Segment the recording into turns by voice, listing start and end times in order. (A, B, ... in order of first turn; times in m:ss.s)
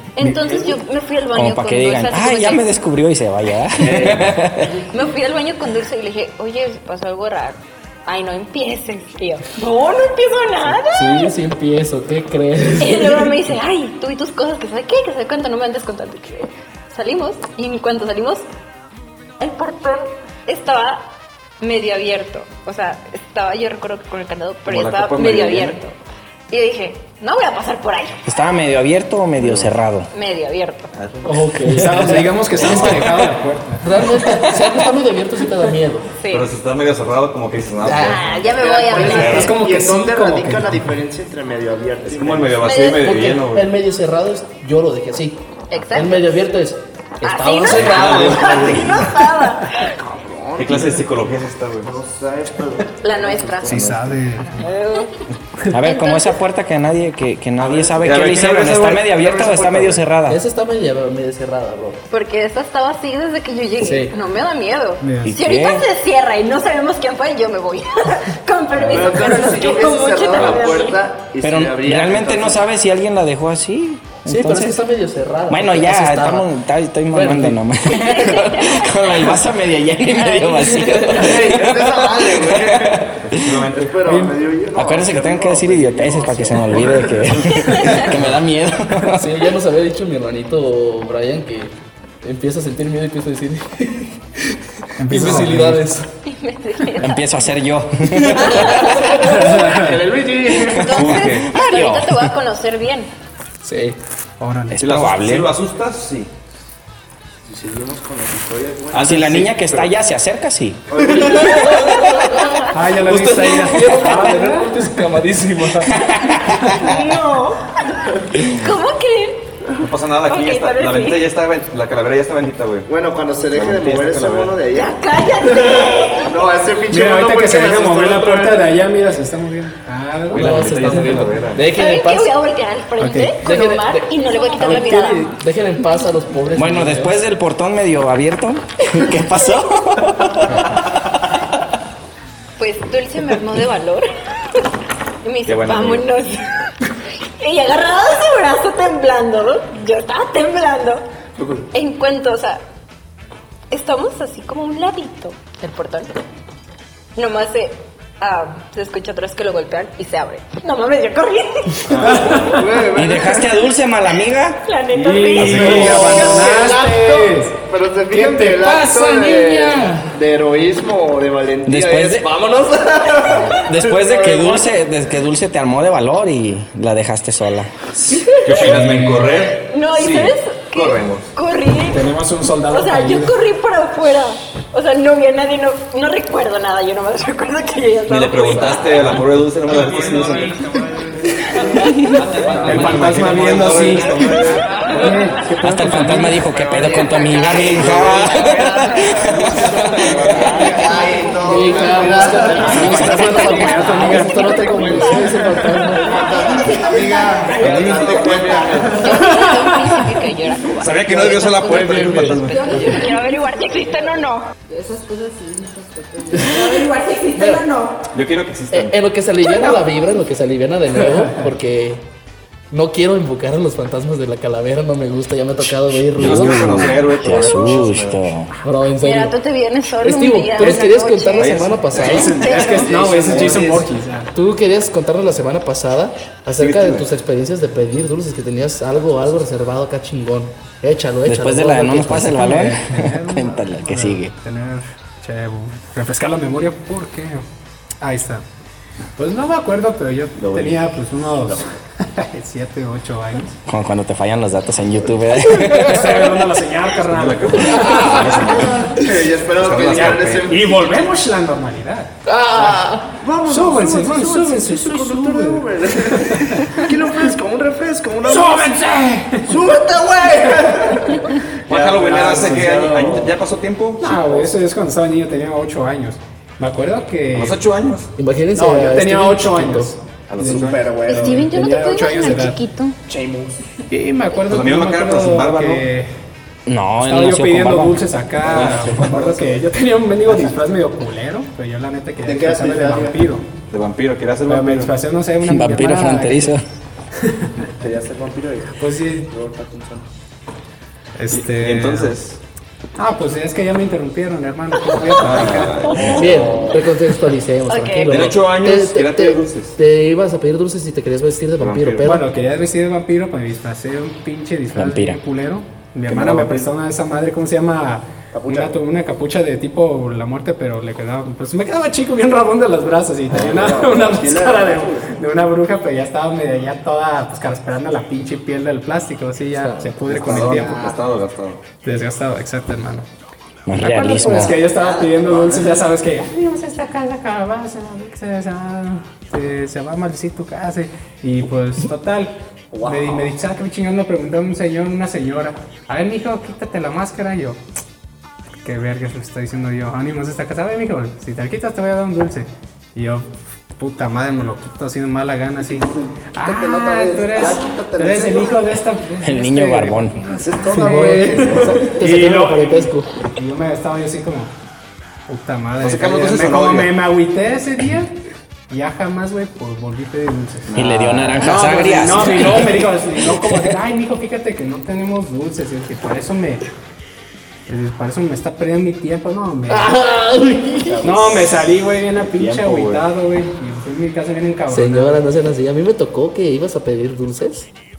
0:00.2-0:02.7 A
0:00.2-0:00.5 B
0:01.3-0:04.8 C
0:03.8-0:04.4 D
0:04.7-0:11.3 A
0:10.9-0:13.4 E
0:12.8-0:18.4 A
0:19.4-0:21.1 A
0:21.6-0:26.0 A
0:24.7-0:25.8 F
0:26.5-0:28.2 A
0:28.3-0:30.1 C
0:29.4-0:29.8 F
0:30.1-0:30.9 A
0:30.9-0:31.5 F
0:31.2-0:32.5 E
0:31.7-0:34.6 B
0:32.6-0:33.2 F
0:33.8-0:36.1 E
0:36.1-0:36.5 A
0:36.3-0:38.3 F
0:37.8-0:38.2 E
0:38.0-0:39.6 A
0:38.4-0:42.6 D
0:39.0-0:39.5 F
0:39.0-0:41.0 B
0:42.1-0:43.7 F
0:42.6-0:43.2 A
0:42.8-0:49.0 E
0:45.7-0:46.4 A
0:47.2-0:49.9 A
0:47.7-0:49.2 F
0:49.8-0:51.1 D
0:50.6-0:51.9 F
0:51.8-0:54.2 D
0:53.0-0:55.2 A
0:53.6-0:54.7 B
0:55.7-1:00.4 C
0:55.8-0:56.4 A
0:57.6-0:58.4 D
0:58.0-1:00.0 F
0:59.1-0:59.5 D
1:00.2-1:02.0 E
1:02.1-1:11.0 A
1:03.8-1:04.1 E
1:05.0-1:05.4 B
1:05.2-1:05.8 C
1:08.8-1:12.6 D
1:11.4-1:14.8 C
1:14.2-1:16.5 E
1:15.5-1:23.6 C
1:17.1-1:17.6 E
1:17.9-1:18.8 A
1:20.1-1:20.8 A
1:20.6-1:21.6 E
1:21.1-1:27.3 D
1:23.3-1:23.9 F
1:24.7-1:29.3 C
1:26.6-1:28.2 F
1:27.4-1:28.0 A
1:29.1-1:36.1 E
1:35.0-1:35.8 B
1:35.1-1:35.4 C
1:36.2-1:37.2 A
1:37.0-1:39.1 C
1:38.1-1:39.9 E
1:38.6-1:39.6 A
1:39.2-1:40.0 B
1:39.3-1:40.8 D
1:40.6-1:42.3 C
1:40.7-1:43.1 A
1:40.9-1:41.5 F
1:43.6-1:44.0 E
1:44.4-1:44.8 B
1:44.7-1:45.5 C
1:44.8-1:46.3 F
1:47.4-1:49.5 D
1:48.9-1:49.9 F
1:48.9-1:50.8 C
1:50.9-1:52.1 D
1:51.0-1:55.9 E
1:52.7-1:54.8 B
1:55.9-1:59.4 A
1:59.8-2:02.9 F
2:00.2-2:01.2 A
2:02.9-2:08.8 D
2:03.5-2:04.6 F
2:04.7-2:06.3 A
2:06.9-2:10.8 B
2:10.3-2:11.6 F
2:10.3-2:12.3 E
2:11.7-2:15.3 A
2:13.0-2:13.4 B
2:13.4-2:17.2 E
2:16.5-2:20.8 C
2:22.6-2:24.6 A
2:25.2-2:26.7 A
2:25.4-2:26.0 F
2:27.4-2:31.0 A
2:31.7-2:32.6 A
2:33.7-2:36.1 A
2:37.2-2:42.4 A
2:41.9-2:42.6 F
2:41.9-2:42.6 B
2:42.1-2:43.6 D
2:42.9-2:44.6 C
2:44.6-2:46.5 A
2:44.9-2:50.1 B
2:45.4-2:46.2 F
2:45.4-2:54.8 D
2:51.6-2:52.3 C
2:53.5-2:58.2 C
2:58.4-3:01.3 F
2:58.6-2:59.3 B
2:59.5-3:02.0 A
3:01.9-3:03.4 B
3:02.7-3:09.0 A
3:08.1-3:10.6 F
3:09.7-3:15.2 D
3:09.8-3:10.4 B
3:12.2-3:14.7 F
3:12.3-3:12.9 E
3:12.6-3:16.4 B
3:15.6-3:20.9 C
3:16.4-3:29.4 D
3:17.8-3:18.2 F
3:18.4-3:19.2 A
3:19.4-3:20.9 F
3:21.4-3:26.3 E
3:22.0-3:25.8 B
3:22.3-3:34.5 A
3:27.6-3:28.5 F
3:27.6-3:27.9 B
3:29.3-3:30.1 B
3:30.8-3:32.6 F
3:31.6-3:33.1 E
3:36.3-3:37.9 A
3:36.3-3:37.7 E
3:38.1-3:39.0 F
3:38.7-3:42.0 E
3:39.4-3:39.8 A
3:41.1-3:41.4 B
3:42.7-3:47.0 E
3:46.2-3:48.2 F
3:46.2-3:48.5 C
3:48.6-3:49.4 E
3:49.0-3:52.9 A
3:50.0-3:52.4 E
3:51.4-3:53.6 F
3:52.2-3:54.3 B
3:52.3-3:53.9 D
3:54.3-4:02.5 E
3:56.6-3:57.1 F
4:01.2-4:04.3 C
4:02.3-4:07.4 B
4:08.0-4:08.4 B
4:09.2-4:13.6 B
4:10.4-4:11.6 F
4:13.6-4:16.4 C
4:15.7-4:18.6 B
4:17.0-4:19.0 F
4:17.7-4:18.3 E
4:17.9-4:21.1 D
4:19.6-4:20.5 F
4:19.8-4:22.1 B
4:22.2-4:23.1 E
4:22.6-4:28.8 D
4:23.4-4:27.0 B
4:28.2-4:29.6 B
4:29.4-4:33.4 D
4:31.7-4:34.5 F
4:31.7-4:32.9 B
4:34.0-4:37.6 B
4:37.3-4:38.1 F
4:38.2-4:39.9 E
4:38.5-4:42.6 B
4:40.3-4:40.8 F
4:40.4-4:41.5 D
4:41.1-4:43.0 A
4:43.0-4:43.6 D
4:43.9-4:46.1 B
4:44.5-4:45.8 F
4:46.7-4:48.1 C
4:47.0-4:53.4 B
4:48.4-4:49.4 F
4:48.6-4:49.6 D
4:50.3-4:50.5 F
4:52.2-4:53.2 D
4:53.7-4:54.9 F
4:54.5-4:56.6 B
4:55.4-4:56.6 C
4:57.2-4:57.7 B
4:57.8-5:00.1 D
4:58.8-4:59.3 B
5:01.2-5:02.1 B
5:01.3-5:02.4 F
5:03.0-5:06.1 B
5:05.2-5:06.6 F
5:05.9-5:06.8 D
5:06.1-5:12.3 E
5:07.7-5:08.3 A
5:08.1-5:09.8 F
5:11.6-5:12.1 F
5:12.0-5:30.8 B
5:14.7-5:15.2 C
5:16.1-5:16.7 F
5:18.3-5:18.8 D
5:23.3-5:25.2 D
5:23.3-5:23.8 F
5:29.6-5:30.2 E
5:30.1-5:31.6 F
5:30.1-5:31.0 D
5:31.8-5:33.1 B
5:33.7-5:34.6 C
5:33.7-5:47.6 B
5:34.1-5:35.9 D
5:42.7-5:43.3 D
5:48.6-6:00.1 B
5:55.6-5:58.7 D
5:59.2-6:00.2 C
6:00.2-6:02.0 D
6:00.6-6:04.5 B
6:00.7-6:03.1 E
6:02.0-6:02.7 F
6:05.3-6:08.1 B
6:05.8-6:06.9 F
6:08.7-6:10.7 B
6:10.7-6:12.4 F
6:10.7-6:13.7 C
6:11.4-6:16.6 B
6:17.7-6:19.9 B
6:19.7-6:21.2 E
6:20.8-6:21.8 D
6:21.0-6:25.2 B
6:22.2-6:23.0 F
6:24.7-6:27.7 E